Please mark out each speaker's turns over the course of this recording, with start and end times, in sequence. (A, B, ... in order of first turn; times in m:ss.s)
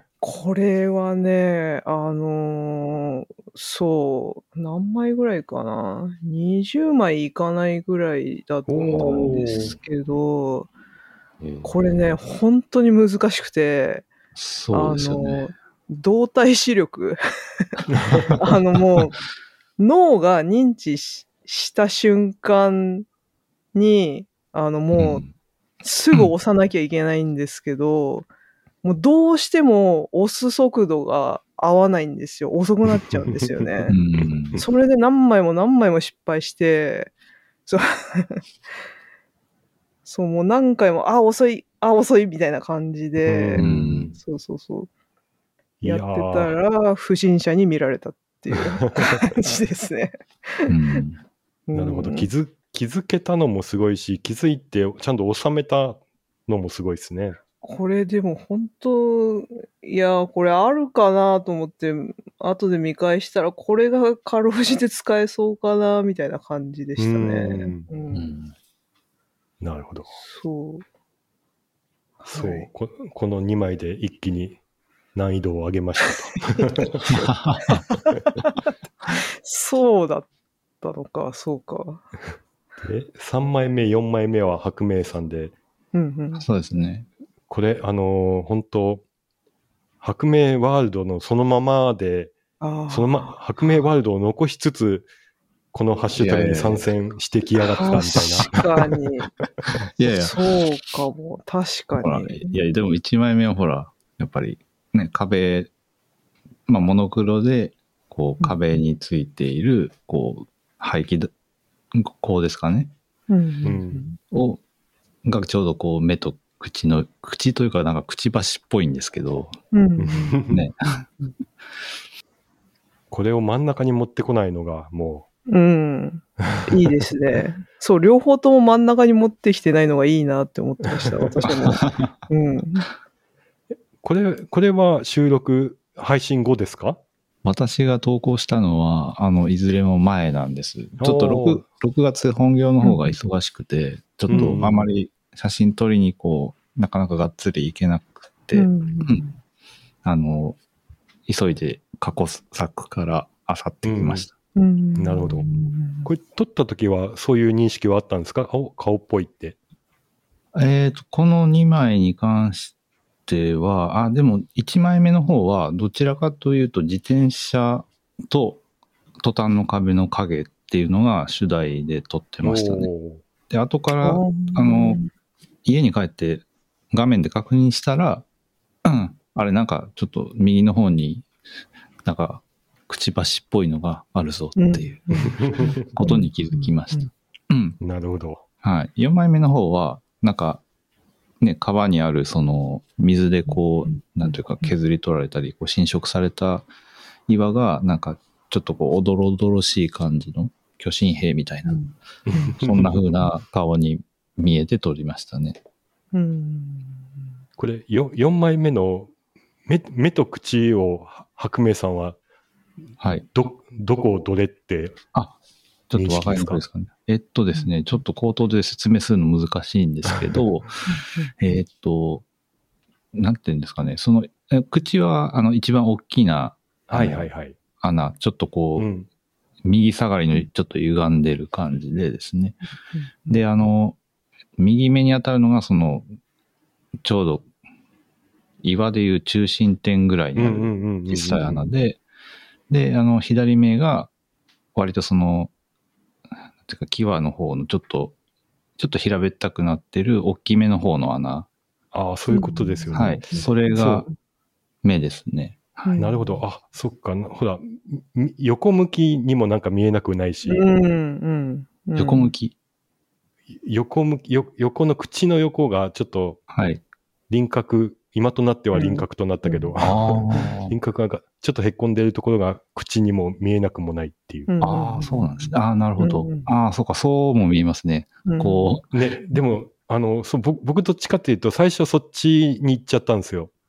0:00.2-0:10.7 A
0:08.7-0:09.7 B
0:08.9-0:09.8 C
0:11.4-0:11.7 C
0:11.6-0:14.1 A
0:14.4-0:15.4 C
0:14.7-0:19.2 A
0:17.9-0:18.3 B
0:19.8-0:23.1 A
0:23.7-0:25.3 A
0:24.9-0:25.3 C
0:25.8-0:28.3 A
0:28.8-0:34.0 A
0:33.2-0:33.4 B
0:33.9-0:34.6 C
0:34.6-0:37.1 A
0:37.7-0:38.4 A
0:40.0-0:43.7 A
0:43.2-0:44.2 B
0:43.6-0:44.2 C
0:44.2-0:44.9 A
0:45.8-0:46.5 B
0:45.8-0:51.0 A
0:48.6-0:49.3 B
0:50.7-0:51.2 C
0:51.7-0:52.3 A
0:51.8-0:57.4 B
0:57.6-1:08.3 A
1:07.0-1:07.9 B
1:08.1-1:08.5 C
1:09.6-1:10.1 B
1:10.2-1:10.8 A
1:12.2-1:12.7 A
1:12.3-1:14.6 B
1:15.2-1:17.2 B
1:16.6-1:16.9 A
1:17.1-1:17.8 C
1:17.7-1:20.3 A
1:20.8-1:22.0 A
1:22.8-1:25.6 B
1:25.9-1:26.4 A
1:26.4-1:27.1 C
1:27.5-1:29.0 B
1:30.0-1:32.4 B
1:32.6-1:33.4 A
1:32.9-1:35.1 B
1:35.7-1:38.6 B
1:36.1-1:36.9 C
1:37.8-1:38.6 C
1:37.8-1:39.3 A
1:40.0-1:40.4 C
1:40.1-1:42.6 A
1:42.0-1:45.7 C
1:46.7-1:51.3 C
1:51.9-1:52.9 C
1:53.3-1:54.2 A
1:53.6-1:54.1 B
1:54.3-1:54.6 C
1:55.2-1:59.6 C
1:59.7-2:00.4 A
2:00.0-2:00.6 B
2:00.5-2:01.1 C
2:03.1-2:05.3 B
2:05.5-2:12.9 A
2:06.4-2:06.7 B
2:10.9-2:11.4 B
2:11.5-2:12.1 C
2:14.0-2:17.0 B
2:17.4-2:29.2 C
2:21.0-2:21.6 B
2:22.8-2:23.2 A
2:24.3-2:24.9 B
2:24.3-2:24.6 A
2:28.5-2:29.4 A
2:30.0-2:30.6 C
2:31.3-2:34.3 C
2:33.8-2:34.3 B
2:34.6-2:36.1 A
2:35.0-2:35.5 B
2:36.0-2:39.6 B
2:40.5-2:42.7 C
2:43.3-2:48.6 C
2:49.2-2:52.9 C
2:52.4-2:53.2 B
2:53.5-2:55.0 C
2:54.0-2:55.1 A
2:55.6-2:58.3 C
2:58.8-3:01.3 C
3:02.0-3:07.8 C
3:04.6-3:07.1 A
3:05.4-3:05.9 B
3:07.8-3:08.4 B
3:08.6-3:10.6 C
3:11.4-3:16.7 C
3:13.9-3:14.7 A
3:17.3-3:21.8 C
3:21.7-3:22.6 A
3:22.3-3:23.0 B
3:22.6-3:25.6 C
3:26.1-3:27.1 A
3:27.6-3:29.1 B
3:29.7-3:32.2 B
3:33.0-3:33.3 C
3:33.3-3:35.0 B
3:35.9-3:42.2 C
3:35.9-3:36.6 B
3:40.9-3:41.3 A
3:43.1-3:47.3 C
3:46.9-3:47.6 B
3:47.8-3:48.9 C
3:48.8-3:49.1 B
3:49.6-3:52.6 C
3:53.0-3:53.4 A
3:53.3-3:54.0 C
3:54.6-3:56.1 C
3:57.0-3:57.5 C
3:58.6-4:02.0 C
4:00.4-4:01.7 B
4:02.7-4:04.1 C
4:04.8-4:05.5 C
4:06.6-4:08.2 C
4:08.8-4:11.5 C
4:11.9-4:13.3 B
4:12.3-4:14.1 A
4:12.9-4:14.1 C
4:14.8-4:15.9 C
4:15.8-4:16.4 A
4:16.0-4:20.7 B
4:20.4-4:22.3 A
4:22.0-4:22.6 C
4:23.6-4:26.4 B
4:26.5-4:26.8 C
4:27.3-4:34.5 B
4:28.7-4:29.7 A
4:29.8-4:30.8 C
4:34.5-4:36.5 A
4:34.6-4:38.9 C
4:38.3-4:38.8 A
4:38.9-4:43.5 B